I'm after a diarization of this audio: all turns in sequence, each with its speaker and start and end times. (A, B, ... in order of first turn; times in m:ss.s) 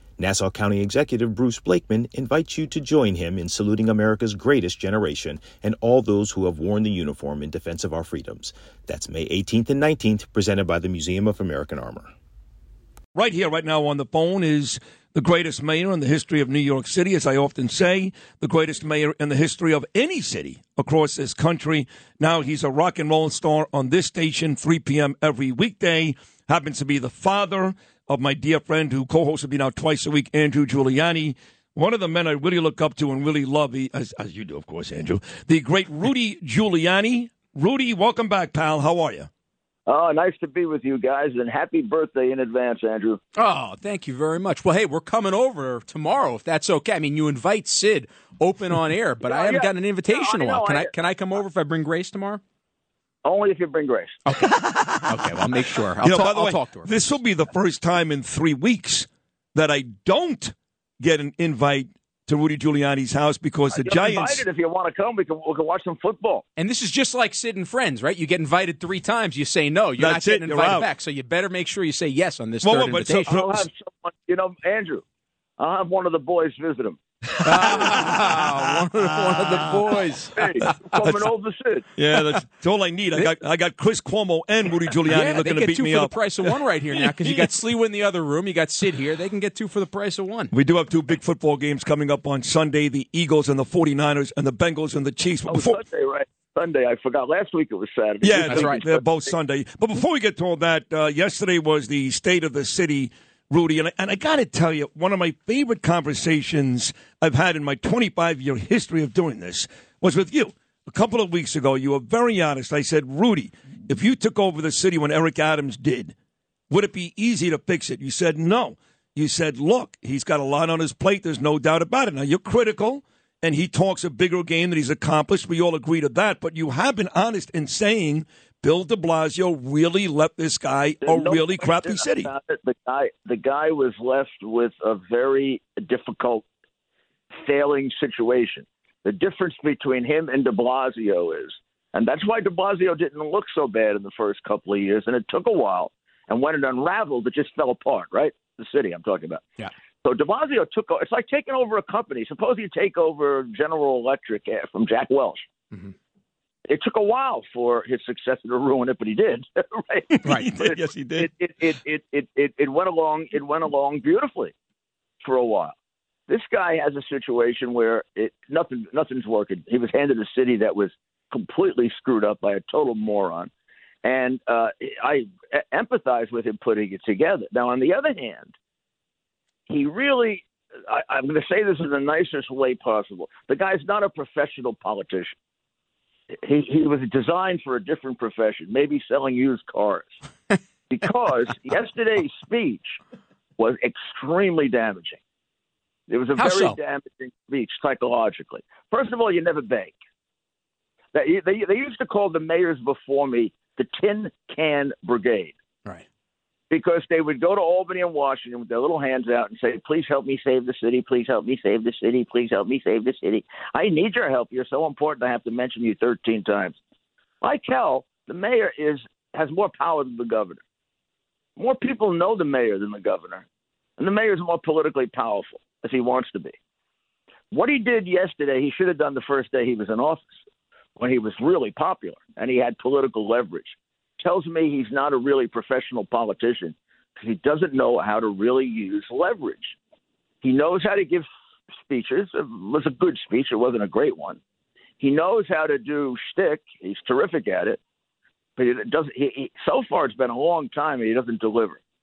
0:00.2-0:12.1 A
0:13.1-0:39.3 B
0:39.9-0:43.2 C
0:43.4-0:52.4 D
0:49.2-0:50.9 C
0:53.2-0:54.2 C
0:54.2-0:57.1 D
0:54.5-0:55.2 B
0:56.0-1:04.4 B
1:03.7-1:06.4 C
1:06.6-1:13.4 D
1:10.0-1:10.9 B
1:12.6-1:13.6 B
1:13.3-1:15.0 C
1:15.6-1:17.0 C
1:17.4-1:18.2 B
1:17.4-1:20.8 D
1:20.3-1:21.9 C
1:21.0-1:21.3 B
1:21.9-1:26.5 B
1:25.0-1:30.5 D
1:30.5-1:35.8 B
1:35.5-1:39.1 C
1:38.2-1:56.1 B
1:38.4-1:38.8 D
1:56.7-2:12.3 B
2:11.0-2:16.4 C
2:17.4-2:29.5 C
2:30.0-2:35.4 C
2:36.7-2:44.5 C
2:40.1-2:41.3 B
2:40.2-2:40.5 D
2:45.2-2:45.7 C
2:46.3-2:53.5 C
2:54.0-2:58.5 C
2:59.7-3:05.3 C
3:06.4-3:10.2 C
3:10.9-3:13.0 C
3:13.6-3:15.2 C
3:16.1-3:19.9 C
3:16.3-3:16.8 D
3:21.1-3:25.5 C
3:26.7-3:36.8 C
3:37.4-3:40.6 C
3:41.6-3:43.4 C
3:44.0-3:46.5 C
3:47.5-3:50.3 C
3:51.0-3:59.7 C
4:00.4-4:01.3 C
4:01.8-4:04.4 C
4:05.0-4:07.8 C
4:08.6-4:11.8 C